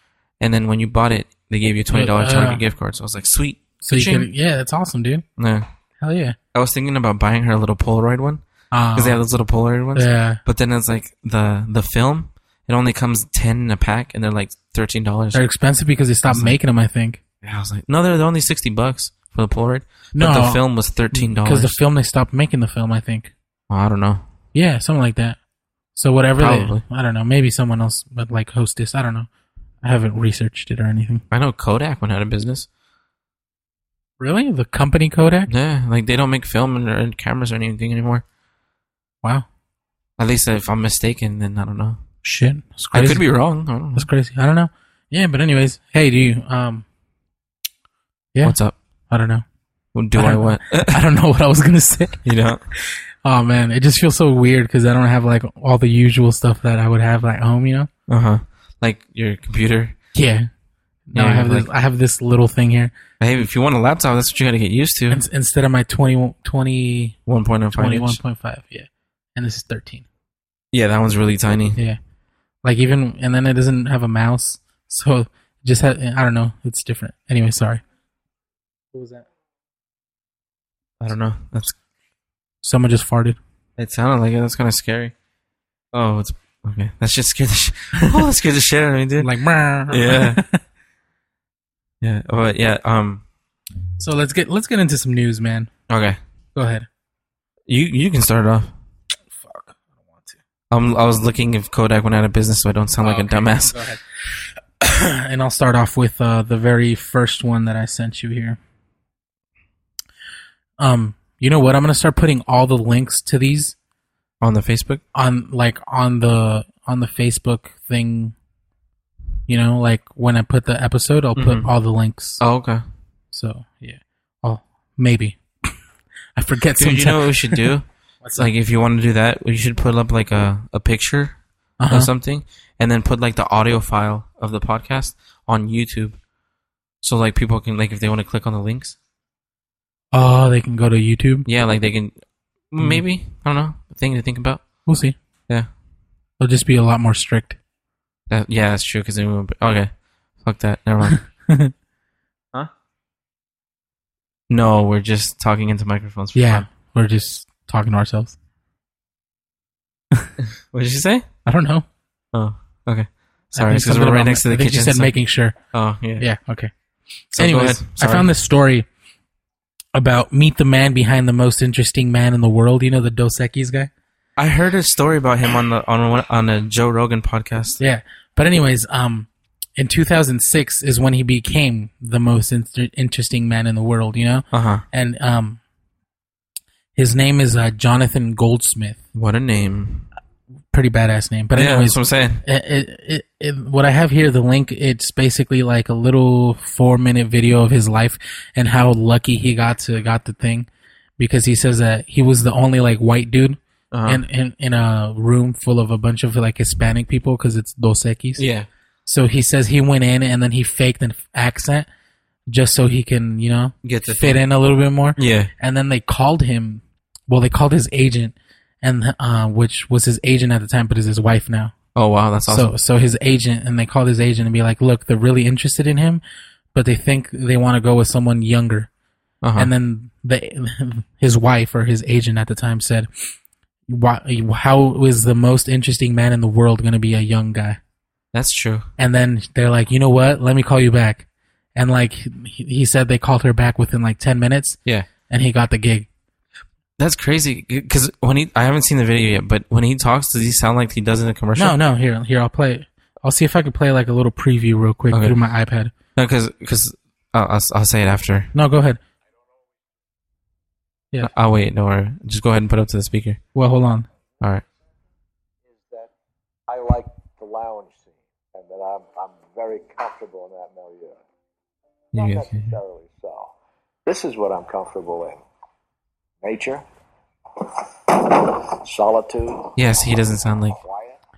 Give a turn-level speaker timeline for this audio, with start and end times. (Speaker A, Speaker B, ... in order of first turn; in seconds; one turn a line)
Speaker A: 0.4-4.3
Speaker B: 1.9-2.6
Speaker B: 3.8-5.2
Speaker A: 5.4-5.7
Speaker B: 6.0-6.4
Speaker A: 6.5-8.4
Speaker B: 8.7-9.2
Speaker A: 8.9-15.4
Speaker B: 9.9-10.4
Speaker B: 15.3-17.2
Speaker A: 16.3-16.6
Speaker A: 17.4-21.8
Speaker B: 20.2-23.3
Speaker A: 23.7-24.2
Speaker B: 24.5-25.4
Speaker B: 25.9-29.3
Speaker A: 26.4-26.8
Speaker B: 29.8-31.2
Speaker A: 31.3-32.7
Speaker B: 34.2-35.5
Speaker A: 35.5-38.2
Speaker A: 40.2-42.0
Speaker B: 42.2-43.2
Speaker A: 42.9-44.1
Speaker B: 43.9-46.9
Speaker A: 48.4-48.8
Speaker B: 49.1-49.4
Speaker A: 50.0-51.0
Speaker B: 50.1-57.9
Speaker A: 52.2-52.6
Speaker A: 58.1-60.0
Speaker B: 60.1-60.5
Speaker B: 61.1-62.9
Speaker A: 61.1-61.7
Speaker A: 63.2-65.2
Speaker B: 65.1-67.2
Speaker A: 67.3-68.2
Speaker B: 67.7-70.1
Speaker A: 70.7-71.8
Speaker B: 72.6-77.8
Speaker B: 78.9-79.3
Speaker A: 81.0-81.8
Speaker B: 82.6-83.4
Speaker A: 83.8-85.1
Speaker A: 85.9-89.3
Speaker B: 89.2-90.6
Speaker A: 89.9-90.4
Speaker A: 92.0-93.2
Speaker B: 94.0-95.7
Speaker A: 95.9-96.2
Speaker B: 96.5-96.9
Speaker A: 97.7-98.7
Speaker B: 99.3-100.4
Speaker A: 100.7-103.8
Speaker B: 103.0-104.0
Speaker B: 104.8-108.6
Speaker B: 110.8-113.8
Speaker A: 114.4-115.0
Speaker B: 115.1-118.3
Speaker B: 119.5-122.4
Speaker A: 121.4-121.7
Speaker A: 122.4-122.8
Speaker B: 123.3-125.4
Speaker B: 126.4-127.7
Speaker A: 126.8-127.9
Speaker B: 128.2-128.5
Speaker A: 128.4-131.4
Speaker B: 131.8-132.1
Speaker A: 131.9-136.2
Speaker A: 137.0-139.0
Speaker B: 140.1-141.5
Speaker A: 141.5-142.1
Speaker A: 142.7-144.6
Speaker B: 144.9-145.2
Speaker B: 146.4-147.6
Speaker A: 148.3-151.2
Speaker B: 151.1-151.7
Speaker A: 154.5-156.7
Speaker B: 156.3-158.4
Speaker A: 160.4-161.2
Speaker B: 161.5-161.8
Speaker A: 162.3-165.1
Speaker B: 163.5-165.6
Speaker A: 165.7-166.2
Speaker B: 166.2-166.7
Speaker A: 167.3-168.3
Speaker B: 167.3-168.9
Speaker B: 169.9-173.9
Speaker A: 174.4-177.8
Speaker B: 177.8-185.6
Speaker A: 184.5-184.8
Speaker B: 186.9-189.0
Speaker A: 189.1-190.1
Speaker B: 190.7-200.7
Speaker A: 191.6-192.4
Speaker B: 201.2-208.4
Speaker A: 203.9-204.2
Speaker A: 208.4-208.7
Speaker B: 209.1-211.9
Speaker B: 212.5-221.8
Speaker A: 213.8-214.4
Speaker A: 215.2-215.5
Speaker A: 221.9-222.7
Speaker B: 222.4-226.2
Speaker B: 226.7-228.9
Speaker A: 229.4-229.7
Speaker B: 229.6-233.1
Speaker B: 233.9-237.8
Speaker A: 238.3-238.9
Speaker B: 239.0-246.1
Speaker A: 247.0-251.8
Speaker B: 251.6-255.9
Speaker A: 255.1-255.4
Speaker A: 256.2-258.5
Speaker B: 258.5-259.0
Speaker A: 261.2-263.4
Speaker B: 263.6-264.1
Speaker C: 265.7-266.1
Speaker C: 266.7-271.2
Speaker A: 272.1-272.8
Speaker C: 272.1-273.5
Speaker C: 274.1-275.4
Speaker C: 276.4-276.8
Speaker C: 277.6-279.8
Speaker A: 279.8-280.8
Speaker C: 280.8-281.2